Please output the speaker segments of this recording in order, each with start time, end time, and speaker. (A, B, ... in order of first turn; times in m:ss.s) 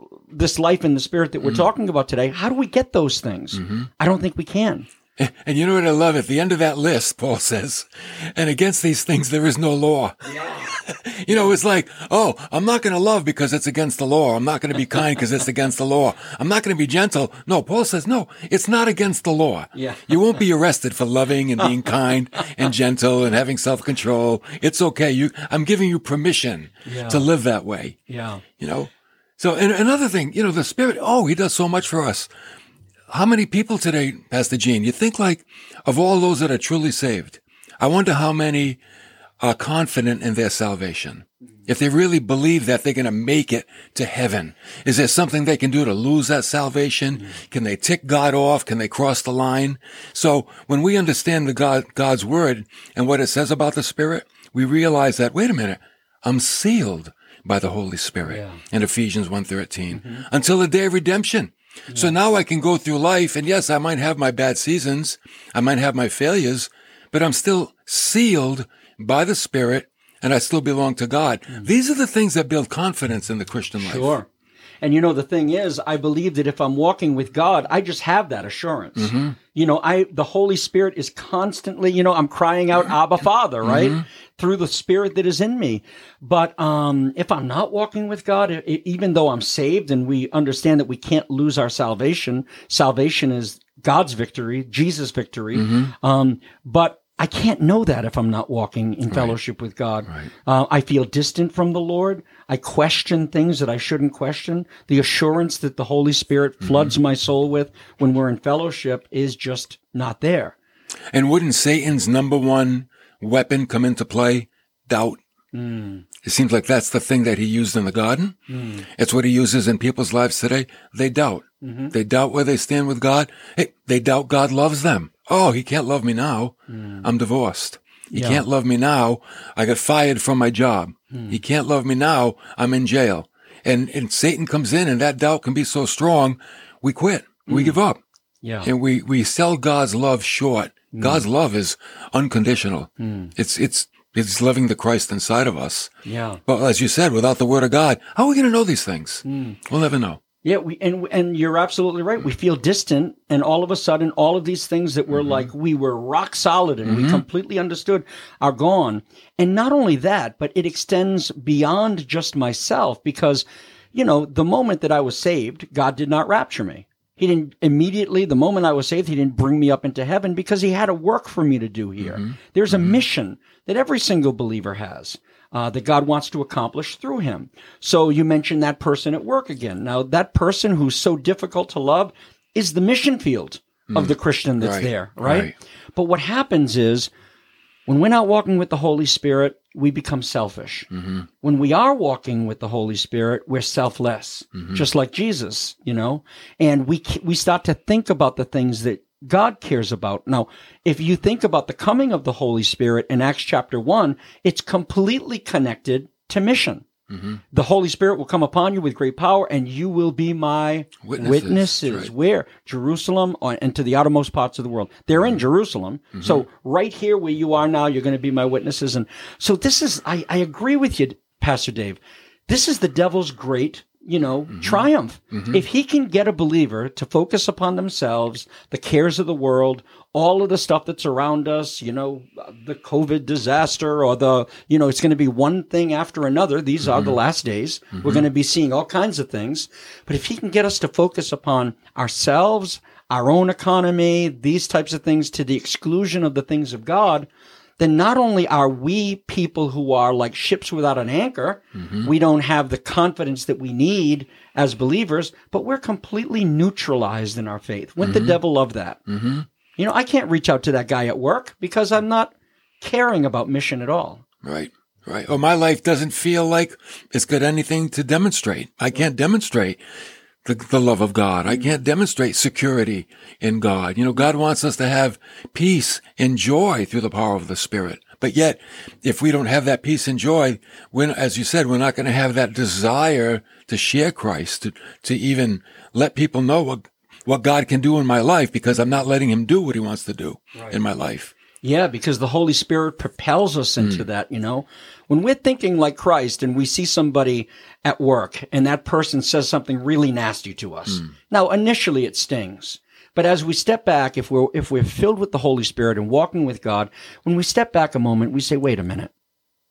0:00.3-0:04.9 A
0:05.2-0:28.0 B
0:10.2-0:10.7 A
0:19.7-0:20.4 A
0:26.8-0:27.2 A
0:28.1-0:28.4 A
0:28.6-0:32.3 B
0:33.1-0:38.8 B
0:39.4-1:14.2 B
0:58.2-0:58.6 A
0:59.9-1:00.2 A
1:01.9-1:02.1 A
1:13.8-1:14.3 A
1:14.8-1:50.6 A
1:19.0-1:19.4 B
1:23.6-1:24.0 B
1:35.6-1:35.9 B
1:46.6-1:46.9 B
1:51.1-1:55.2 B
1:55.5-1:56.0 A
1:56.2-1:58.4 B
1:58.5-1:58.9 A
1:58.9-2:18.0 B
2:01.6-2:01.9 A
2:06.7-2:07.1 A
2:08.1-2:08.4 A
2:11.1-2:11.4 A
2:17.5-2:17.8 A
2:18.4-2:18.7 A
2:18.6-2:25.9 B
2:20.9-2:21.2 A
2:23.0-2:23.3 A
2:26.0-2:26.4 A
2:26.4-2:30.2 B
2:29.2-2:29.6 A
2:30.4-3:07.1 A
2:35.1-2:35.4 B
2:36.8-2:37.2 B
2:52.0-2:52.9 B
3:03.9-3:05.5 B
3:07.9-3:10.9 A
3:11.4-3:26.8 A
3:27.1-3:27.4 B
3:27.5-4:19.0 A
3:31.0-3:32.1 B
3:44.6-3:45.6 B
3:58.0-3:58.2 B
4:11.8-4:12.1 B
4:18.0-4:18.4 B
4:19.1-4:19.4 B
4:19.8-4:24.2 A
4:24.4-4:29.8 B
4:30.4-4:51.3 B
4:51.6-5:09.1 A